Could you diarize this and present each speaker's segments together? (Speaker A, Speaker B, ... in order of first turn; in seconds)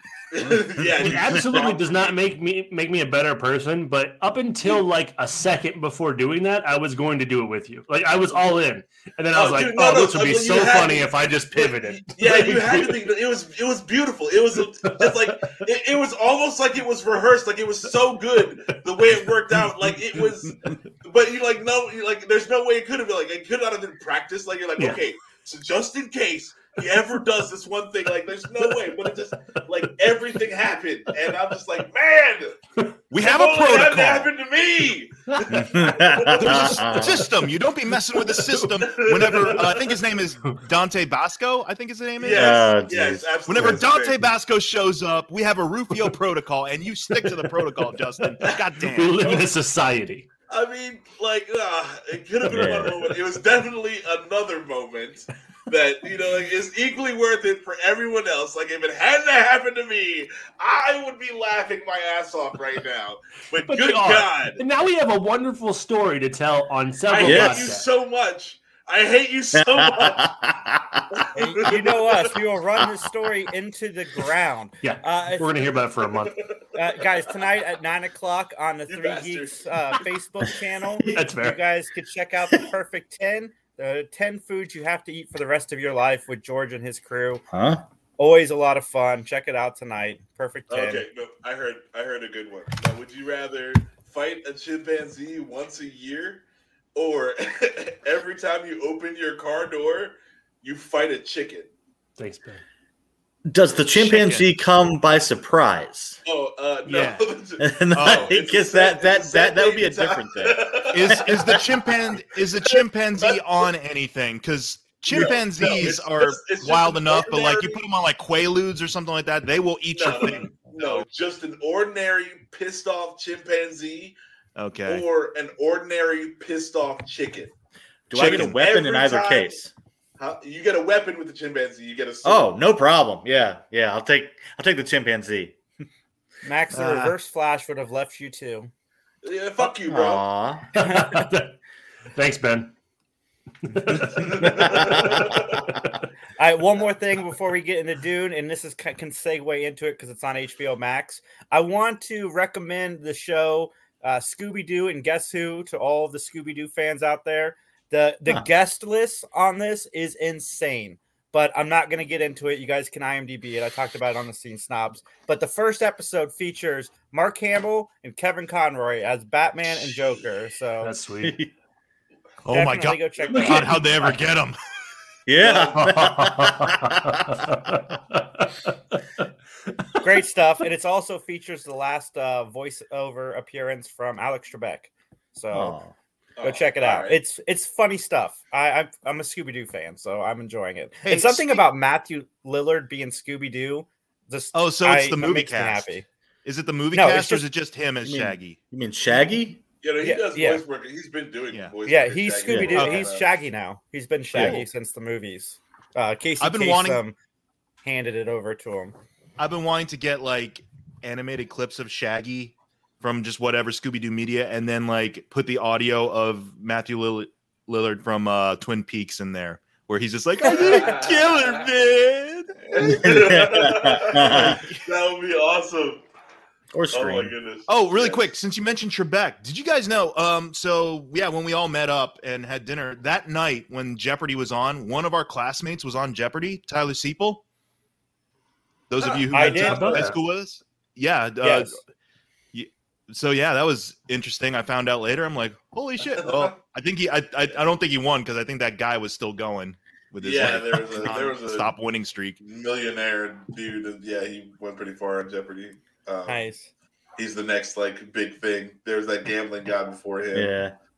Speaker A: 0.3-2.2, 9.3-32.5, 33.1-36.9, 38.8-39.8, 42.2-44.2, 49.2-49.5, 50.5-64.6, 67.1-70.2, 71.1-72.3, 76.0-76.7, 78.9-79.7, 90.7-96.4, 96.9-101.7, 106.2-111.6, 112.6-113.7, 115.1-117.8, 119.9-124.2, 124.8-127.5, 128.1-129.6, 130.2-132.5, 139.2-140.2, 144.2-145.6, 175.4-175.8, 186.4-187.2, 199.8-203.2, 220.4-221.6, 222.6-226.0, 226.9-228.2, 239.0-239.2, 246.2-246.5, 250.2-251.7, 252.4-256.4, 257.2-260.5
Speaker B: 1.0-13.1, 14.8-15.6, 18.7-20.2, 24.8-25.0, 28.6-30.4, 38.1-38.9, 47.1-50.3, 63.6-67.8, 74.8-76.4, 81.1-81.6, 102.2-102.6, 140.7-141.6, 142.1-142.7, 143.6-145.9, 170.8-171.4, 173.3-174.2, 175.7-180.0, 239.5-240.2
Speaker C: 1.1-1.4, 35.5-37.2, 42.2-43.8, 52.5-53.0, 67.2-67.6, 69.5-71.0, 87.5-87.8, 103.5-106.2, 107.6-110.6, 128.1-129.7, 132.2-135.6, 139.8-141.0, 144.4-145.2, 171.2-171.5, 175.3-177.5, 185.5-185.9, 198.0-199.6, 202.5-202.8, 204.3-204.6, 222.8-224.6, 226.7-227.3, 260.3-260.7
Speaker D: 33.1-34.3, 36.9-42.7, 43.5-49.3, 103.9-104.5, 106.8-107.2, 107.9-108.3, 110.9-121.0, 124.5-125.0, 128.2-128.6, 136.7-137.1, 172.4-174.5, 191.0-191.6, 194.5-195.9, 196.4-198.6, 202.7-203.1, 204.3-204.6, 206.4-207.0, 209.4-222.5, 224.2-224.8, 227.7-237.4, 238.9-241.8, 242.5-252.4
Speaker E: 71.4-75.7, 76.8-87.4, 88.2-91.0, 136.4-138.7, 146.4-170.9, 172.5-173.9, 180.0-185.8, 186.4-196.0, 196.9-197.4, 200.0-200.6, 201.8-207.2, 207.8-208.9, 239.3-240.1, 241.4-241.7, 256.3-256.7